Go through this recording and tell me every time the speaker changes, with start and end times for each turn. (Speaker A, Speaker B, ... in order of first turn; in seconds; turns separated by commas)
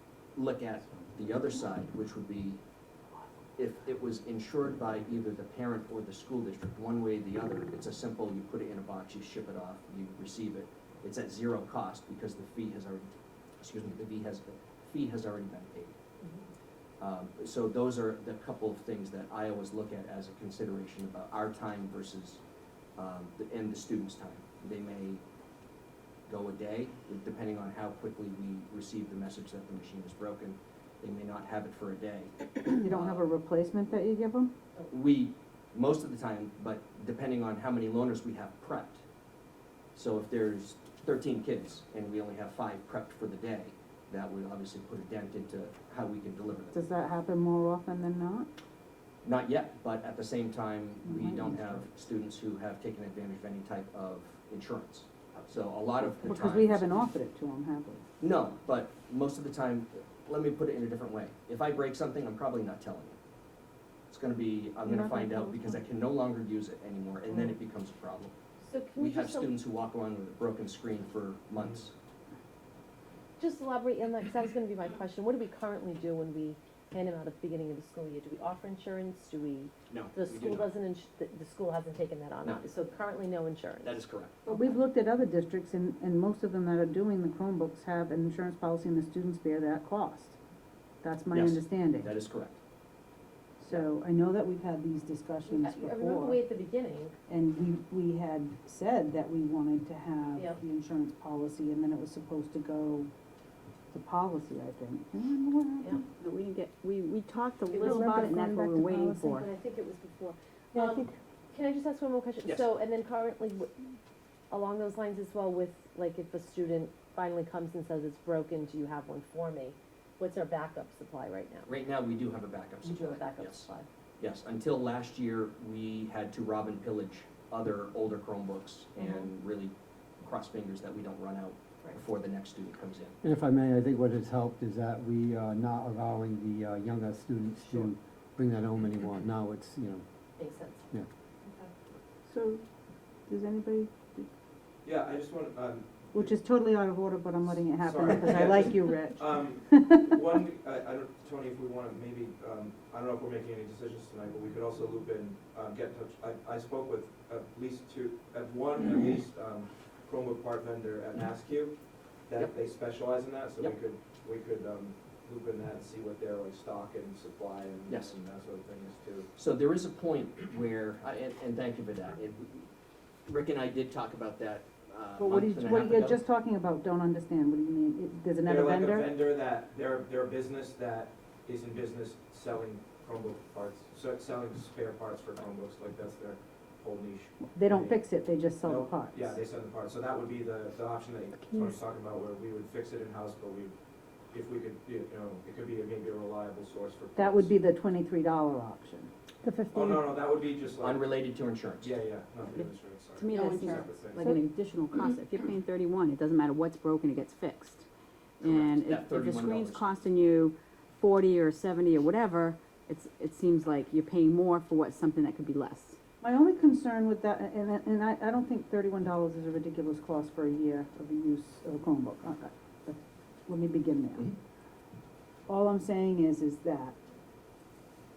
Speaker A: 0.3-2.6, Speaker A: 3.6-13.1, Speaker A: 13.6-15.9, Speaker A: 17.0-22.4, Speaker A: 23.0-25.2, Speaker A: 26.3-33.2, Speaker B: 32.7-34.5, Speaker A: 34.9-39.0, Speaker A: 39.9-46.7, Speaker B: 46.7-48.5, Speaker A: 49.2-56.9, Speaker B: 51.0-51.8, Speaker B: 56.2-58.0, Speaker A: 58.2-63.2, Speaker A: 64.1-68.3, Speaker B: 64.8-65.8, Speaker C: 68.6-69.5, Speaker A: 69.0-71.9, Speaker C: 73.4-84.6, Speaker A: 79.9-80.7, Speaker A: 83.8-84.7, Speaker B: 84.5-90.3, Speaker B: 91.0-92.1, Speaker A: 91.3-92.6, Speaker B: 93.6-96.4, Speaker C: 95.5-97.2, Speaker B: 97.3-103.1, Speaker B: 103.9-106.0, Speaker D: 106.1-109.5, Speaker C: 107.7-108.2, Speaker B: 107.8-109.4, Speaker C: 109.2-113.7, Speaker B: 110.7-111.1, Speaker A: 112.4-112.7, Speaker C: 114.5-121.8, Speaker A: 121.7-123.7, Speaker C: 122.8-123.9, Speaker A: 124.2-133.2, Speaker C: 128.9-129.3, Speaker E: 133.2-140.1, Speaker C: 140.4-140.8, Speaker B: 142.3-142.6, Speaker B: 143.3-144.3, Speaker F: 144.8-146.3, Speaker B: 146.1-150.1, Speaker F: 147.4-169.3, Speaker A: 167.9-168.1, Speaker A: 169.4-172.7, Speaker A: 173.3-176.2, Speaker B: 175.2-179.1, Speaker F: 178.4-188.0, Speaker B: 187.4-189.3, Speaker F: 188.6-193.7, Speaker F: 194.3-197.5, Speaker B: 197.2-199.1, Speaker F: 199.7-201.2, Speaker A: 200.8-201.9, Speaker F: 201.8-204.3, Speaker D: 203.2-207.8, Speaker C: 203.3-203.6, Speaker D: 208.4-216.0, Speaker A: 208.4-209.9, Speaker B: 216.2-224.3, Speaker B: 225.5-226.9